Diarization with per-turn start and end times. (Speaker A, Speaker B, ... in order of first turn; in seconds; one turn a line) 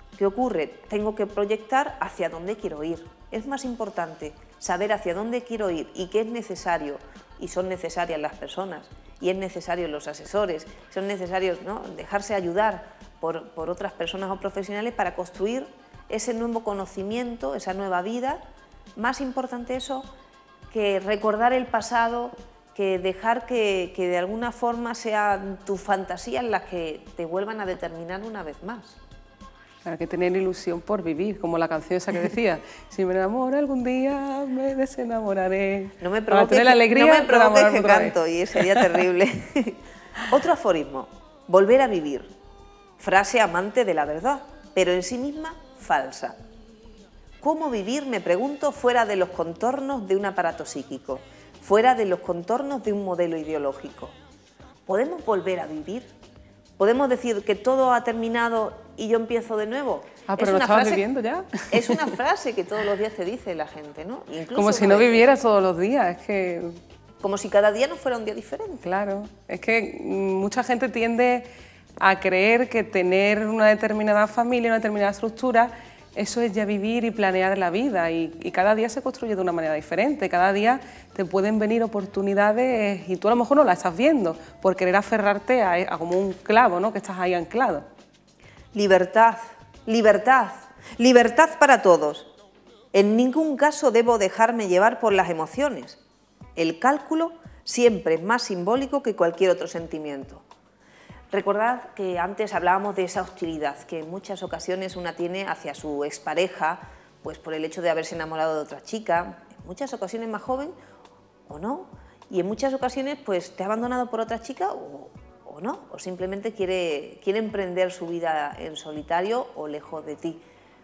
Speaker A: 0.2-18.4
Speaker A: 18.9-20.1
Speaker A: 20.7-29.0
Speaker B: 29.8-38.9
Speaker A: 36.0-42.3
Speaker A: 43.0-46.4
Speaker A: 47.4-54.1
Speaker A: 54.9-56.1
Speaker A: 56.8-61.0
Speaker B: 60.3-62.1
Speaker A: 61.7-65.3
Speaker B: 64.5-66.8
Speaker A: 67.2-68.8
Speaker B: 68.8-71.5
Speaker B: 72.0-87.8
Speaker A: 88.7-92.3
Speaker A: 92.9-96.0
Speaker A: 96.5-100.4
Speaker A: 101.3-110.7
Speaker A: 111.5-120.4